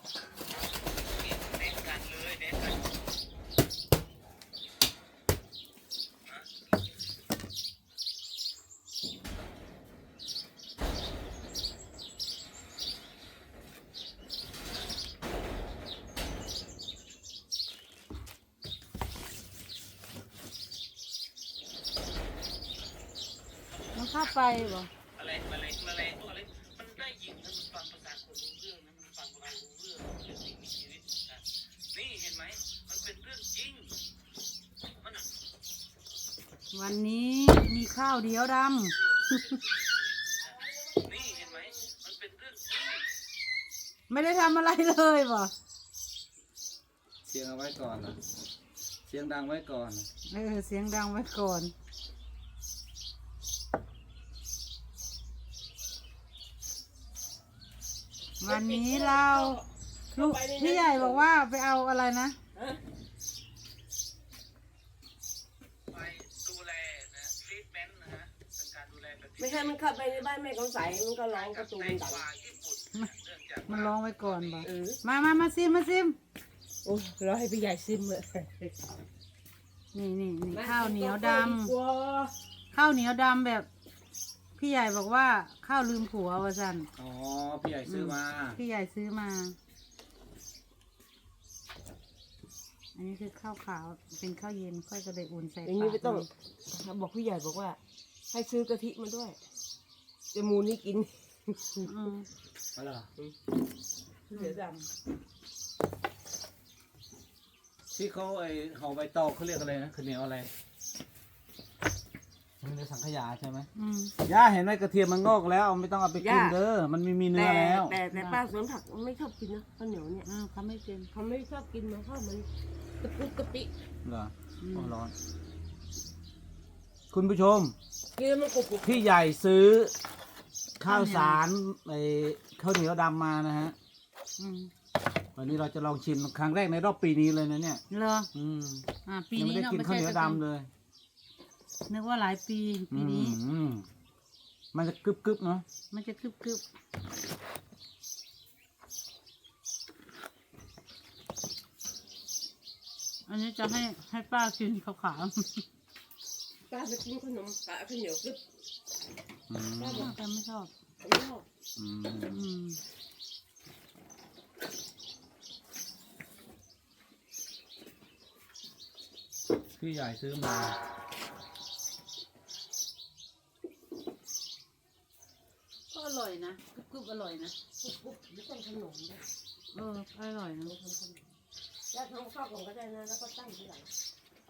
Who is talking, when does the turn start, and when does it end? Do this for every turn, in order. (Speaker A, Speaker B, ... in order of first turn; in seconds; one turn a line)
Speaker A: 1.0-2.9
Speaker B: 23.9-24.9
Speaker A: 24.1-24.6
Speaker A: 25.2-33.9
Speaker A: 35.0-35.3
Speaker B: 36.7-39.6
Speaker A: 39.0-43.1
Speaker C: 40.4-41.9
Speaker B: 44.1-45.5
Speaker A: 47.2-48.2
Speaker A: 49.0-50.1
Speaker B: 50.3-51.7
Speaker B: 58.4-59.6
Speaker C: 58.4-61.3
Speaker B: 60.1-62.4
Speaker C: 62.5-62.8
Speaker A: 65.9-70.2
Speaker C: 69.4-72.2
Speaker A: 71.3-74.7
Speaker B: 73.7-76.2
Speaker C: 74.6-75.0
Speaker C: 76.8-78.7
Speaker B: 79.9-81.7
Speaker C: 80.5-82.3
Speaker B: 82.7-83.7
Speaker B: 84.6-86.9
Speaker A: 87.0-88.6
Speaker B: 87.9-89.6
Speaker B: 93.0-96.3
Speaker C: 95.7-97.8
Speaker C: 98.3-99.4
Speaker C: 100.3-101.9
Speaker B: 101.8-102.3
Speaker A: 102.8-103.1
Speaker C: 104.3-104.9
Speaker A: 107.9-110.5
Speaker A: 112.6-113.7
Speaker B: 113.8-114.2
Speaker A: 114.2-118.0
Speaker C: 116.2-116.6
Speaker C: 117.3-120.3
Speaker B: 118.1-118.4
Speaker B: 120.2-121.1
Speaker C: 121.1-122.5
Speaker C: 123.0-123.7
Speaker A: 124.0-125.1
Speaker B: 124.6-124.9
Speaker A: 127.1-127.8
Speaker C: 128.2-129.1
Speaker A: 128.8-129.9
Speaker A: 130.8-133.8
Speaker B: 130.9-131.4
Speaker B: 134.4-134.7
Speaker A: 135.4-137.8
Speaker B: 137.9-138.3
Speaker A: 138.3-140.7
Speaker B: 139.1-140.4
Speaker B: 141.9-143.4
Speaker A: 142.9-143.9
Speaker A: 144.7-145.7
Speaker B: 145.9-146.6
Speaker B: 153.3-155.7
Speaker C: 156.7-158.4
Speaker A: 159.5-160.2
Speaker C: 159.8-160.2
Speaker B: 159.9-160.7
Speaker C: 161.0-161.5
Speaker A: 161.8-162.4
Speaker B: 162.2-162.8
Speaker A: 169.8-170.8
Speaker B: 175.9-177.6
Speaker C: 177.8-179.2
Speaker B: 179.7-180.7
Speaker C: 180.6-181.2
Speaker C: 181.9-183.9